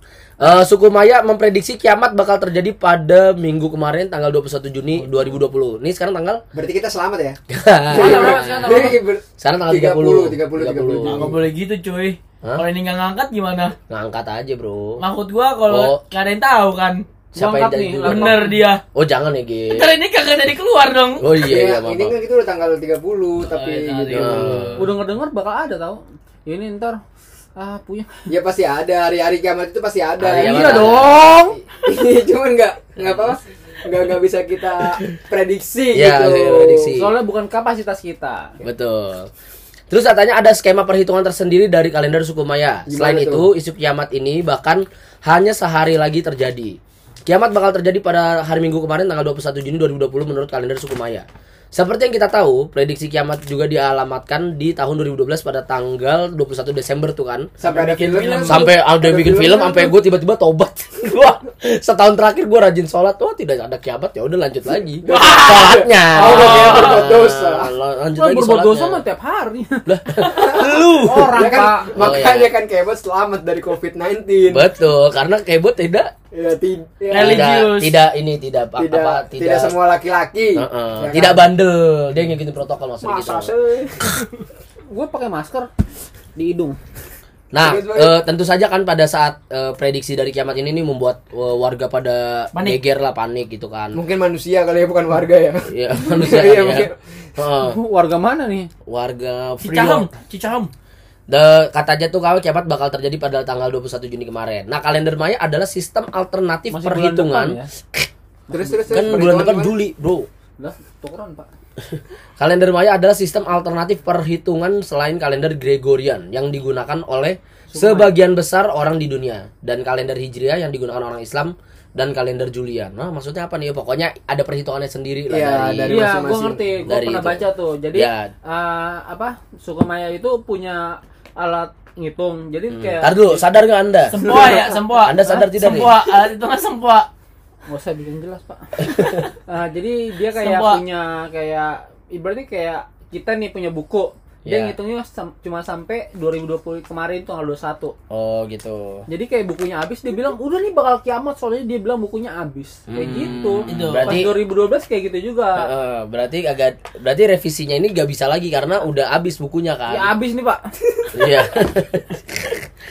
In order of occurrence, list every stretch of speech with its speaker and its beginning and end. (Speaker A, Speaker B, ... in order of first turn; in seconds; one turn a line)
Speaker A: 0.4-6.4
Speaker B: 6.5-7.4
Speaker A: 7.5-11.3
Speaker B: 7.9-11.4
Speaker C: 8.0-8.9
Speaker D: 8.0-8.9
Speaker C: 11.1-13.8
Speaker A: 13.9-15.0
Speaker C: 15.0-17.0
Speaker A: 15.7-16.0
Speaker A: 17.4-18.4
Speaker D: 17.4-18.6
Speaker C: 18.0-18.8
Speaker A: 18.9-19.9
Speaker C: 19.7-21.2
Speaker A: 21.2-22.1
Speaker B: 21.4-24.7
Speaker C: 23.4-24.8
Speaker A: 24.1-25.0
Speaker D: 24.8-27.0
Speaker D: 27.6-28.1
Speaker B: 28.3-36.9
Speaker A: 30.2-31.3
Speaker D: 30.4-31.6
Speaker A: 35.9-37.1
Speaker D: 37.0-38.5
Speaker A: 38.6-39.3
Speaker A: 39.9-57.5
Speaker B: 42.9-43.5
Speaker B: 57.6-60.0
Speaker C: 57.6-58.7
Speaker A: 58.5-69.0
Speaker B: 65.0-67.7
Speaker C: 65.1-67.1
Speaker D: 68.2-71.9
Speaker A: 69.9-72.5
Speaker B: 70.2-74.7
Speaker A: 74.5-76.1
Speaker B: 76.3-77.5
Speaker C: 77.1-78.0
Speaker A: 77.1-79.8
Speaker B: 78.8-81.5
Speaker A: 80.6-83.5
Speaker B: 83.0-84.0
Speaker D: 84.9-85.7
Speaker D: 86.4-86.8
Speaker A: 87.5-94.0
Speaker B: 87.6-88.2
Speaker C: 92.5-92.8
Speaker B: 93.9-97.0
Speaker A: 95.7-97.8
Speaker D: 97.6-98.7
Speaker A: 98.9-100.1
Speaker C: 99.6-100.7
Speaker A: 101.3-108.1
Speaker D: 106.7-107.7
Speaker D: 108.5-109.1
Speaker B: 108.5-109.8
Speaker A: 108.9-110.3
Speaker D: 110.6-111.5
Speaker A: 111.8-126.1
Speaker D: 117.7-118.1
Speaker B: 125.3-126.8
Speaker D: 125.9-133.4
Speaker A: 126.9-128.3
Speaker A: 132.7-134.2
Speaker C: 134.1-137.1
Speaker D: 134.3-134.6
Speaker A: 135.0-135.9
Speaker D: 135.2-135.5
Speaker D: 137.7-147.9
Speaker C: 140.3-140.8
Speaker A: 144.4-144.8
Speaker A: 148.1-149.1
Speaker D: 149.1-155.7
Speaker A: 152.9-154.4
Speaker C: 153.7-154.2
Speaker A: 155.6-160.1
Speaker D: 159.9-160.6
Speaker A: 161.1-162.7